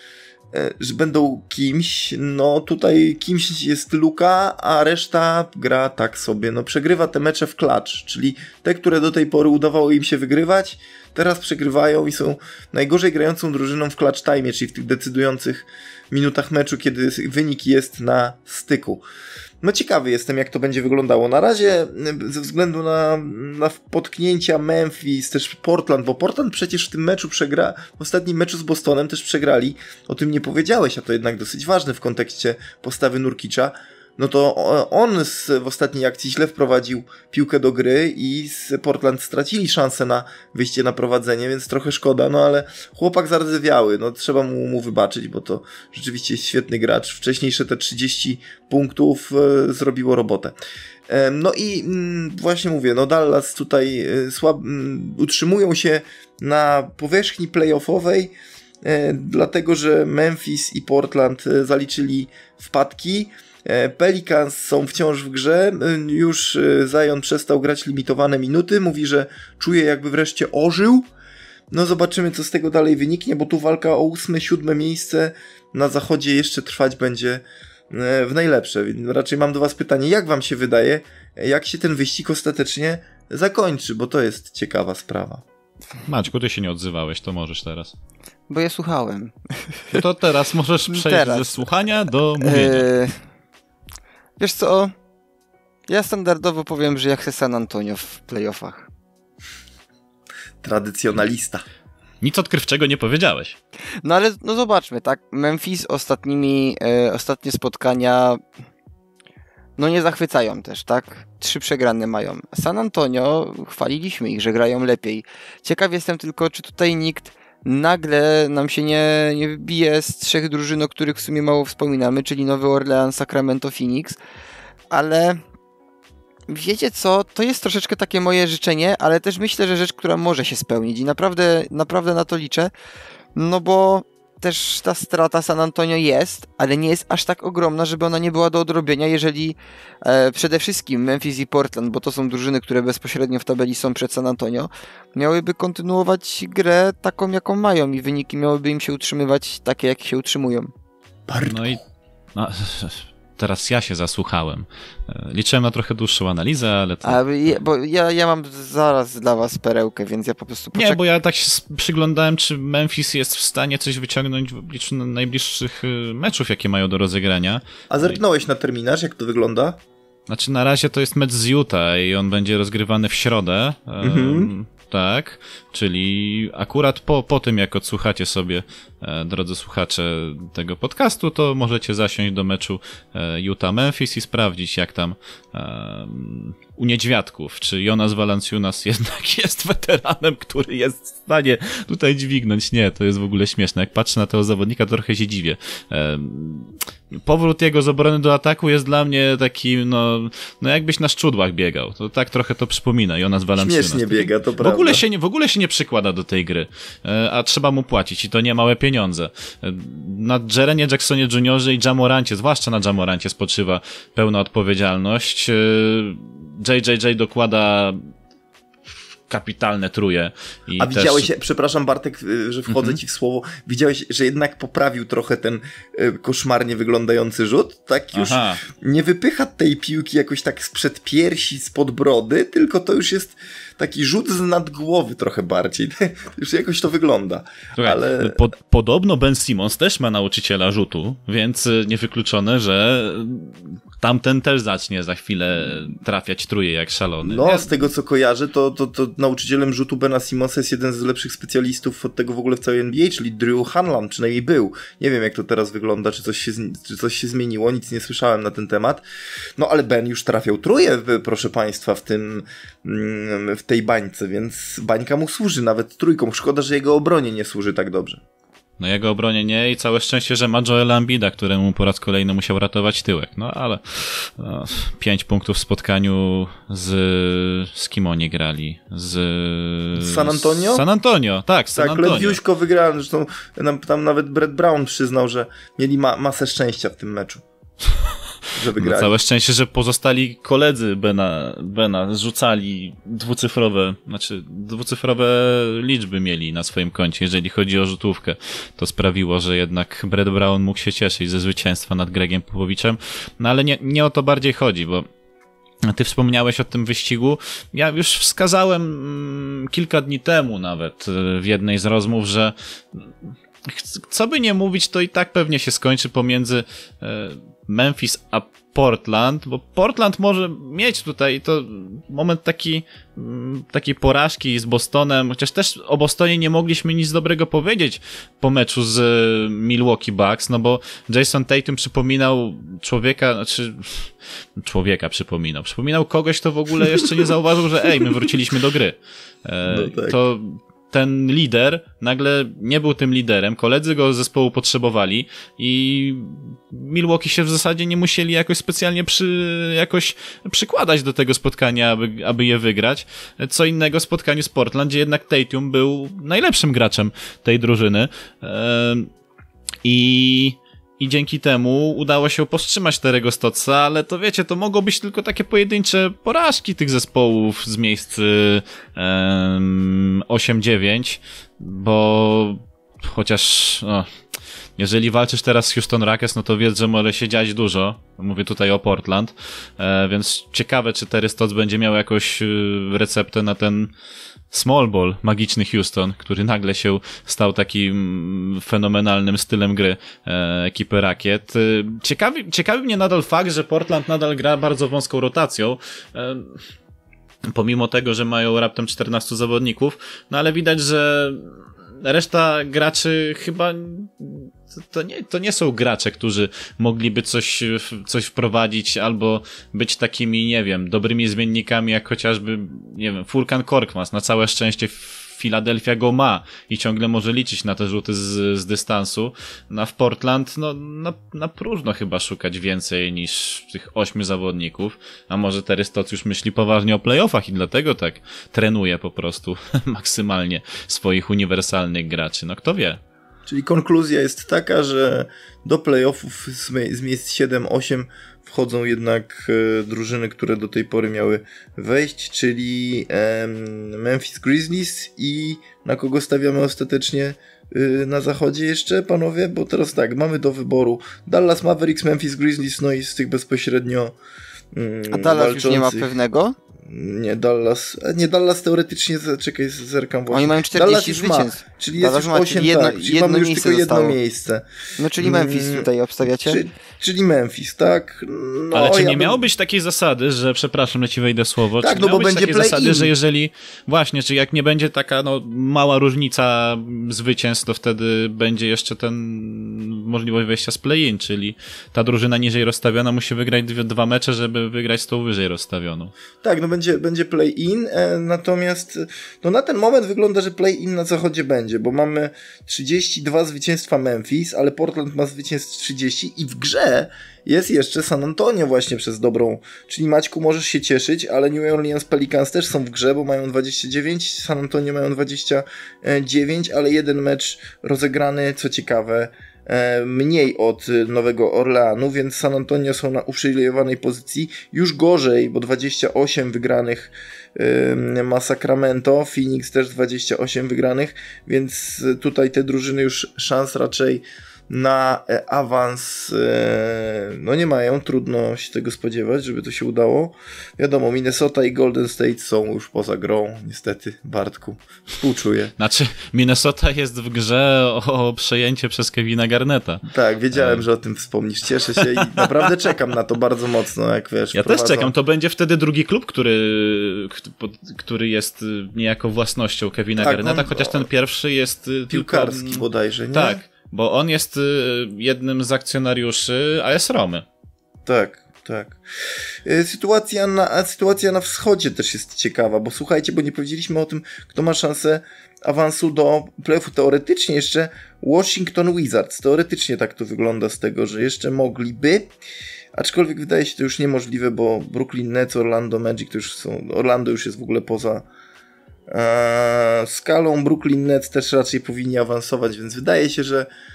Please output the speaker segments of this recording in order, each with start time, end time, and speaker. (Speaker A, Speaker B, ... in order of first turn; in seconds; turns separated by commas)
Speaker A: 0.5-19.0, Speaker A: 19.6-50.5, Speaker A: 51.1-71.1, Speaker A: 71.7-85.4, Speaker B: 86.0-87.9, Speaker C: 88.5-90.0, Speaker B: 89.9-92.8, Speaker C: 90.9-91.7, Speaker C: 92.4-93.2, Speaker C: 94.4-94.9, Speaker C: 95.9-98.9, Speaker A: 100.6-101.6, Speaker B: 102.2-103.6, Speaker C: 104.0-108.4, Speaker C: 109.8-124.2, Speaker C: 124.9-125.4, Speaker C: 126.5-132.7, Speaker C: 133.3-150.7, Speaker A: 151.3-151.9, Speaker B: 151.4-151.8, Speaker B: 152.3-157.6, Speaker C: 157.0-161.0, Speaker B: 160.7-168.2, Speaker A: 167.9-169.8, Speaker B: 170.3-218.1, Speaker A: 174.0-174.5, Speaker A: 203.6-205.0, Speaker B: 219.3-221.3, Speaker A: 220.8-238.4, Speaker B: 222.7-223.0, Speaker B: 228.1-228.6, Speaker B: 237.8-247.8, Speaker A: 247.2-259.0, Speaker A: 259.6-268.2, Speaker B: 268.8-282.4, Speaker A: 280.0-280.8, Speaker A: 281.8-287.4, Speaker A: 288.6-289.1, Speaker B: 288.7-305.1, Speaker B: 305.8-313.1, Speaker B: 313.6-359.1, Speaker A: 339.7-340.2, Speaker B: 359.8-374.1, Speaker B: 374.8-383.9, Speaker B: 384.5-396.6, Speaker B: 397.5-433.0, Speaker A: 433.5-454.1, Speaker A: 454.7-456.1, Speaker C: 455.1-456.6, Speaker A: 456.8-464.6, Speaker C: 460.3-464.2, Speaker C: 465.0-466.6, Speaker A: 465.2-469.4, Speaker B: 468.7-486.1, Speaker A: 471.8-473.1, Speaker A: 486.4-535.7, Speaker B: 535.8-540.9, Speaker A: 540.0-545.1, Speaker B: 542.0-542.5, Speaker B: 544.5-557.4, Speaker A: 550.2-551.1, Speaker A: 552.1-553.6, Speaker A: 558.0-559.0, Speaker A: 559.6-572.3, Speaker A: 572.9-578.3, Speaker A: 579.1-583.7